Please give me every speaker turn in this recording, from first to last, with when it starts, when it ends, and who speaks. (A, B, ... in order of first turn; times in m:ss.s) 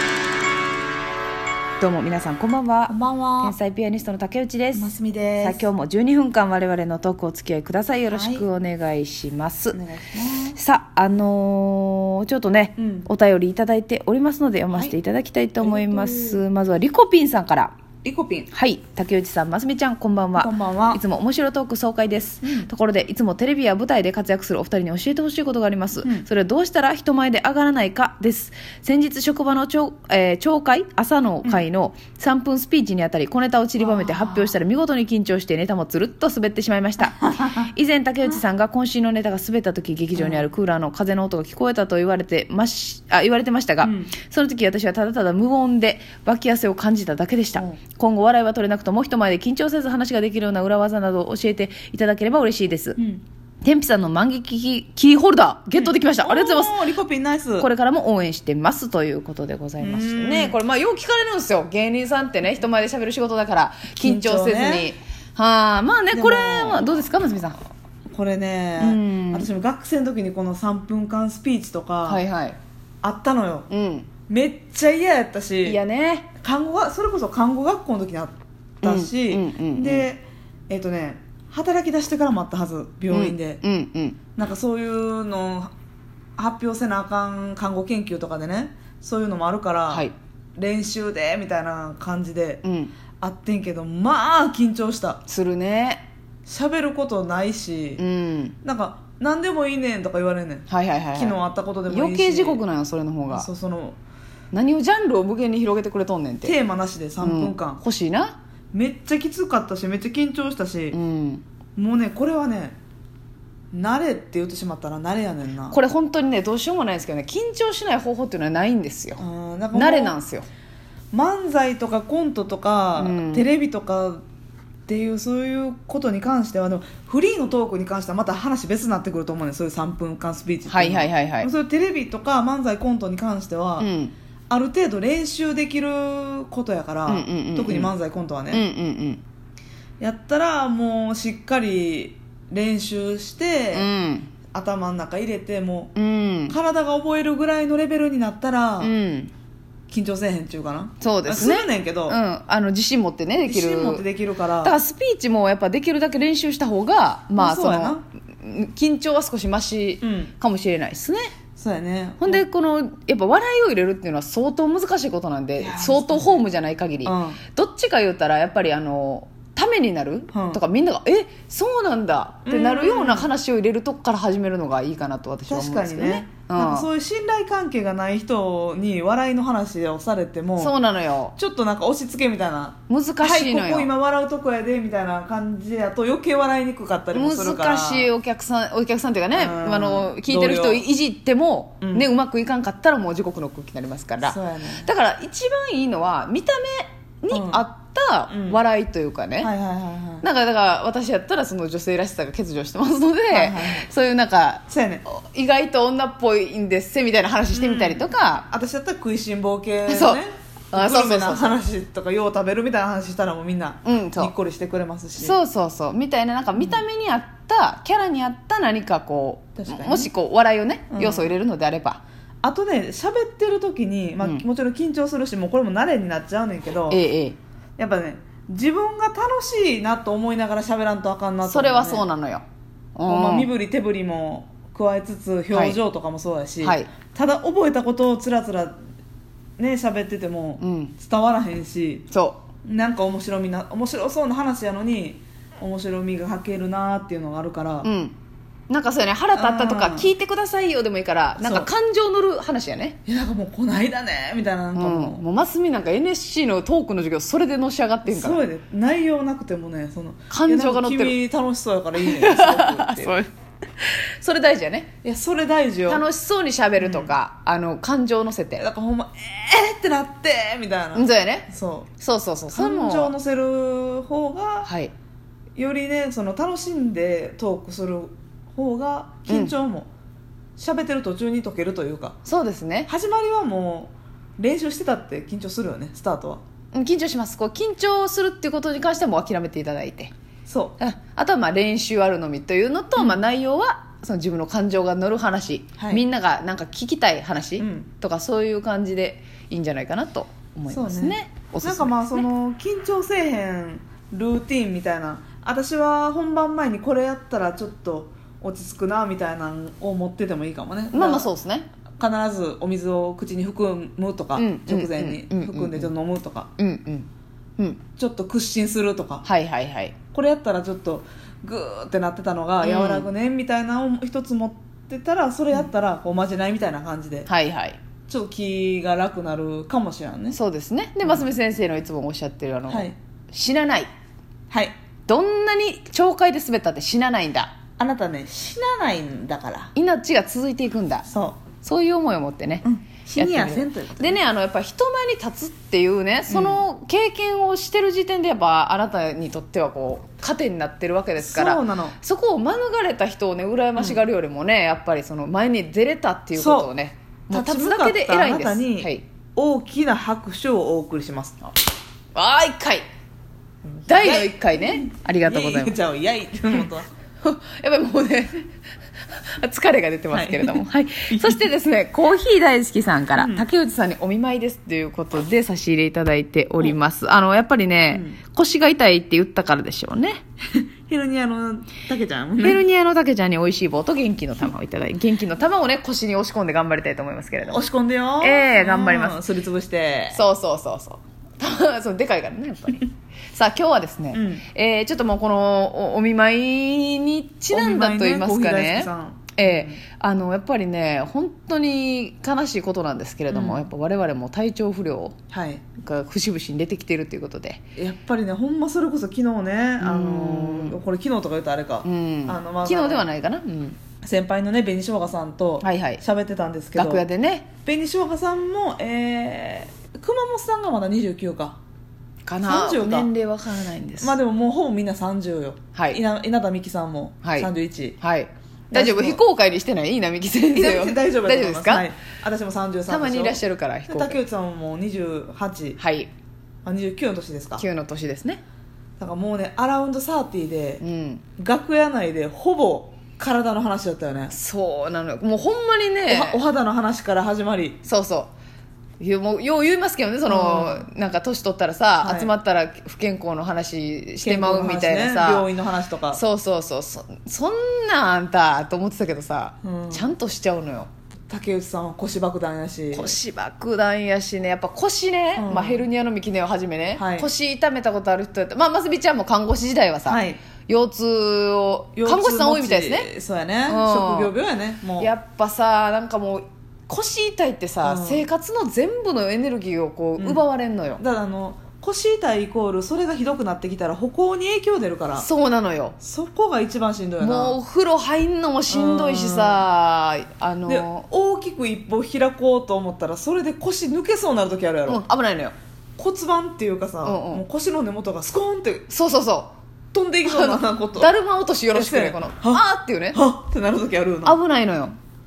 0:01.8-0:09.8 A
0:02.9-0:03.6 B
0:04.7-0:05.7 B
0:08.1-0:08.5 B
0:09.7-0:10.6 B
0:10.6-0:17.7 A
0:12.8-0:13.1 B
0:15.6-0:16.4 B
0:18.0-0:18.5 B
0:18.5-0:53.0 A
0:20.4-0:21.0 B
0:22.4-0:22.7 B
0:33.8-0:34.6 B
0:37.2-0:37.6 B
0:40.1-0:40.5 B
0:43.8-0:44.1 B
0:53.0-0:53.2 B
0:53.6-0:56.8 A
0:55.7-0:57.7 B
0:57.6-1:07.6 A
0:59.8-1:00.6 B
1:04.0-1:04.9 B
1:06.1-1:07.0 B
1:08.1-1:12.2 B
1:08.8-1:09.5 A
1:12.1-1:12.6 A
1:13.0-1:13.7 B
1:13.7-1:14.1 A
1:14.3-1:15.8 B
1:15.6-1:16.3 A
1:16.4-1:23.6 B
1:18.8-1:20.1 A
1:23.1-1:24.2 A
1:24.4-1:25.7 B
1:26.4-1:32.6 B
1:32.6-1:32.9 A
1:33.2-1:35.2 B
1:35.3-1:36.0 A
1:36.4-1:38.0 B
1:38.0-1:38.6 A
1:38.6-1:42.6 B
1:40.7-1:41.4 A
1:41.9-1:43.5 A
1:43.3-1:44.0 B
1:44.5-1:46.6 A
1:46.4-1:47.8 B
1:47.2-1:48.4 A
1:48.7-1:51.0 B
1:50.9-1:51.4 A
1:51.8-1:52.8 B
1:53.7-1:55.8 B
1:55.7-1:59.2 A
1:59.2-2:00.2 B
1:59.7-2:00.4 A
2:01.1-2:04.2 B
2:03.0-2:03.5 A
2:04.9-2:13.9 B
2:10.7-2:11.5 A
2:13.8-2:14.1 A
2:14.5-2:18.6 B
2:17.1-2:17.9 A
2:18.5-2:19.2 A
2:20.0-2:23.9 B
2:23.7-2:24.3 A
2:24.5-2:25.9 B
2:25.9-2:26.6 A
2:26.5-2:28.9 B
2:28.8-2:29.3 A
2:29.9-2:32.2 B
2:31.0-2:34.0 A
2:33.5-2:34.8 B
2:34.6-2:41.3 A
2:37.4-2:38.0 B
2:40.0-2:40.3 B
2:41.6-2:42.4 B
2:42.2-2:56.9 A
2:45.6-2:46.4 B
2:47.0-2:47.4 B
2:50.3-2:50.6 B
2:52.4-2:53.3 B
2:55.5-3:00.7 B
3:00.6-3:01.3 A
3:01.4-3:08.1 B
3:02.9-3:03.9 A
3:07.1-3:19.5 A
3:09.3-3:10.8 B
3:11.8-3:12.1 B
3:14.2-3:14.9 B
3:17.3-3:17.6 B
3:18.3-3:18.6 B
3:19.4-3:20.2 B
3:20.2-3:28.5 A
3:23.3-3:23.9 B
3:24.7-3:25.0 B
3:27.5-3:35.4 B
3:29.9-3:30.2 A
3:30.7-3:31.6 A
3:33.8-3:34.3 A
3:35.2-3:42.0 A
3:36.6-3:36.8 B
3:39.6-3:40.1 B
3:40.9-3:41.3 B
3:42.4-3:47.0 B
3:46.9-3:47.4 A
3:47.8-3:52.0 B
3:51.4-3:52.4 A
3:53.0-3:53.5 A
3:53.1-3:58.8 B
3:55.5-3:55.8 A
3:56.6-3:56.9 A
3:59.6-4:02.1 B
4:00.6-4:00.9 A
4:02.1-4:02.4 A
4:02.6-4:07.9 B
4:07.8-4:08.2 A
4:08.7-4:13.0 A
4:09.3-4:10.1 B
4:11.4-4:11.7 B
4:13.1-4:15.2 B
4:14.8-4:18.4 A
4:18.1-4:23.2 B
4:20.3-4:21.2 A
4:22.0-4:23.3 A
4:23.8-4:24.9 A
4:25.0-4:26.0 B
4:25.9-4:28.7 A
4:26.8-4:27.1 B
4:28.6-4:31.9 B
4:30.9-4:31.5 A
4:32.0-4:33.1 A
4:32.5-4:34.7 B
4:34.6-4:34.9 A
4:35.6-4:39.9 B
4:39.3-4:39.5 A
4:40.6-4:42.2 B
4:42.2-4:42.9 A
4:42.9-4:46.4 B
4:46.7-4:50.1 A
4:50.5-4:50.8 B
4:50.8-5:02.2 A
4:55.8-4:56.0 B
4:57.6-4:57.9 B
5:00.7-5:11.3 B
5:10.9-5:11.7 A
5:12.0-5:16.5 B
5:14.4-5:15.9 A
5:16.6-5:17.8 A
5:18.0-5:19.2 B
5:19.2-5:20.0 A
5:20.1-5:27.3 B
5:22.6-5:23.1 A
5:27.3-5:27.8 A
5:28.1-5:30.4 B
5:30.3-5:33.9 A
5:32.7-5:32.9 B
5:35.1-5:37.6 A
5:37.8-5:39.7 B
5:39.8-5:41.1 A
5:41.1-5:41.4 B
5:41.6-5:59.0 A
5:42.6-5:44.2 B
5:46.3-5:46.6 B
5:51.2-5:52.0 B
5:56.3-5:56.7 B
5:57.3-6:01.4 B
6:02.1-6:02.8 A
6:03.7-6:06.9 B
6:03.9-6:05.8 A
6:07.2-6:08.4 A
6:09.1-6:20.2 A
6:10.1-6:11.5 B
6:13.2-6:13.4 B
6:17.9-6:18.2 B
6:20.6-6:22.6 B
6:22.4-6:27.6 A
6:27.5-6:30.2 B
6:28.2-6:29.2 A
6:30.1-6:45.1 A
6:34.1-6:34.4 B
6:37.5-6:39.8 B
6:43.3-6:43.7 B
6:45.3-6:45.6 B
6:45.8-6:47.6 A
6:47.8-6:53.1 B
6:49.8-6:50.8 A
6:51.8-6:53.8 A
6:54.0-6:57.1 B
6:55.6-6:56.0 A
6:56.8-6:57.5 A
6:57.6-7:01.6 B
7:02.2-7:04.2 A
7:02.4-7:03.1 B
7:04.0-7:08.0 B
7:07.2-7:07.5 A
7:08.0-7:11.9 A
7:08.7-7:09.2 B
7:10.5-7:15.8 B
7:12.9-7:14.2 A
7:15.8-7:16.1 A
7:16.6-7:17.6 B
7:17.6-7:18.4 A
7:19.0-7:20.8 B
7:20.8-7:21.2 A
7:21.4-7:24.3 B
7:24.3-7:26.4 A
7:26.1-7:27.8 B
7:27.8-7:28.3 A
7:29.0-7:35.5 A
7:30.2-7:30.9 B
7:32.0-7:32.3 B
7:34.2-7:36.2 B
7:36.1-7:40.9 A
7:39.6-7:40.1 B
7:41.3-7:43.2 B
7:42.9-7:53.1 A
7:45.4-7:45.9 B
7:47.0-7:47.3 B
7:50.1-7:50.4 B
7:52.0-7:55.1 B
7:53.7-7:54.3 A
7:55.0-8:01.0 A
7:57.8-7:58.2 B
8:00.2-8:00.5 B
8:01.0-8:05.3 B
8:05.2-8:06.0 A
8:06.0-8:07.6 B
8:07.2-8:11.1 A
8:08.7-8:09.7 B
8:10.7-8:15.0 B
8:14.9-8:15.6 A
8:16.0-8:18.9 B
8:17.0-8:17.4 A
8:18.9-8:19.5 A
8:19.9-8:21.1 B
8:20.2-8:23.2 A
8:21.7-8:24.4 B
8:24.2-8:25.0 A